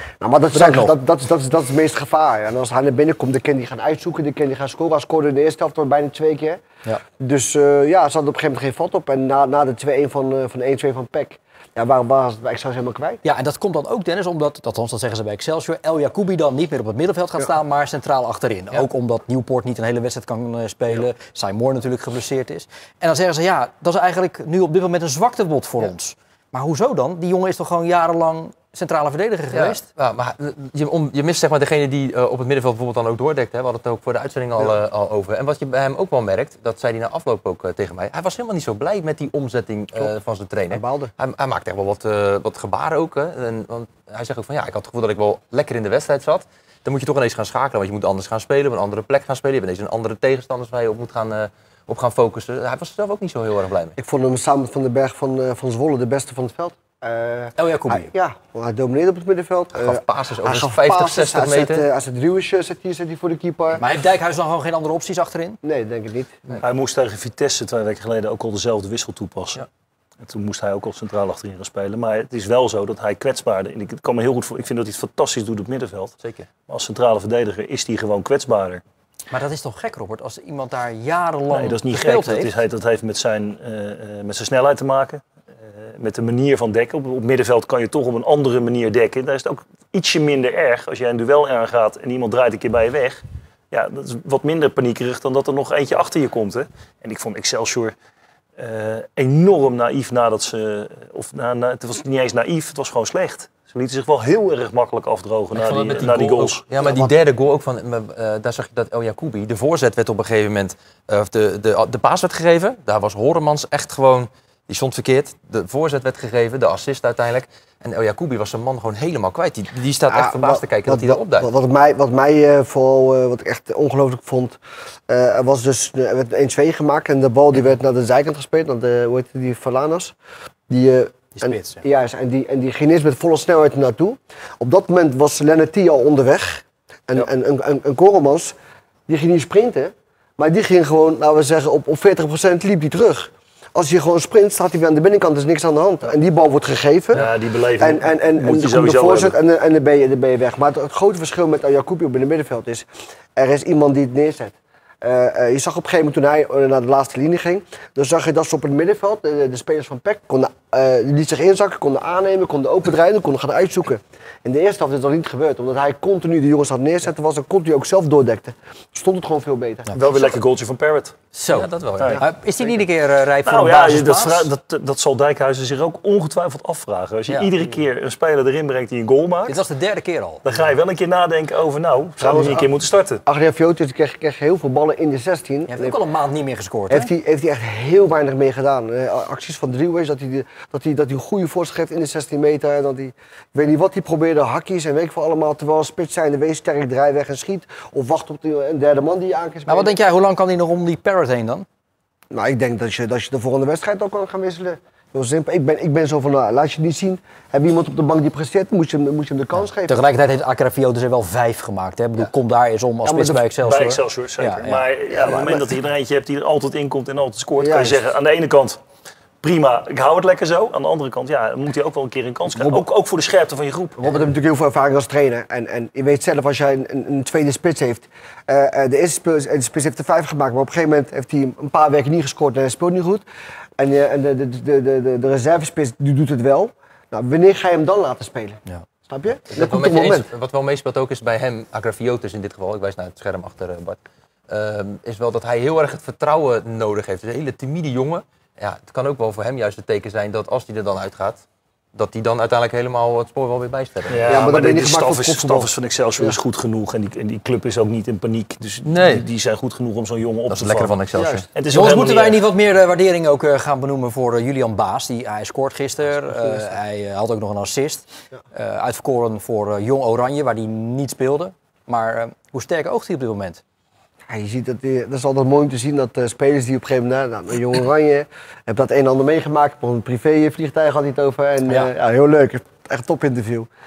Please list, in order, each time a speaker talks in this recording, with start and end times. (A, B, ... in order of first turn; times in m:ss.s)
0:00.2-0:06.6 A
0:00.5-0:00.9 B
0:07.2-0:13.2 A
0:13.2-0:29.8 B
0:29.5-0:54.0 C
0:40.7-0:41.1 A
0:54.0-1:03.8 A
0:57.6-0:58.1 B
0:59.8-1:01.8 C
1:03.8-1:05.6 B
1:05.6-1:06.4 A
1:06.6-1:09.6 D
1:10.2-1:16.2 D
1:16.2-1:16.5 C
1:16.7-1:18.8 D
1:19.3-1:22.5 B
1:21.5-1:38.0 D
1:38.6-1:46.6 D
1:45.5-2:01.5 C
1:46.8-1:47.1 A
2:00.1-2:10.1 A
2:10.7-2:18.6 A
2:11.4-2:11.8 B
2:19.1-2:50.4 A
2:27.1-2:29.4 D
2:49.9-2:51.2 D
2:51.3-2:54.5 B
2:51.5-2:52.2 C
2:53.4-2:59.6 D
2:59.5-3:00.4 B
3:00.4-3:03.2 D
3:02.2-3:02.7 A
3:03.2-3:06.0 A
3:05.7-3:07.1 B
3:06.9-3:20.0 A
3:19.7-3:21.7 B
3:22.3-3:30.0 A
3:29.8-3:34.9 B
3:33.0-3:33.5 A
3:33.6-3:38.8 D
3:35.1-3:35.7 A
3:37.6-3:38.1 A
3:39.4-3:44.1 D
3:44.0-3:53.2 A
3:53.8-4:00.3 A
3:59.5-4:14.2 C
4:14.1-4:21.0 D
4:14.2-4:16.4 A
4:18.8-4:19.2 C
4:20.5-4:21.5 C
4:21.2-4:21.5 A
4:21.6-4:22.4 D
4:21.7-4:33.6 B
4:34.3-4:43.7 A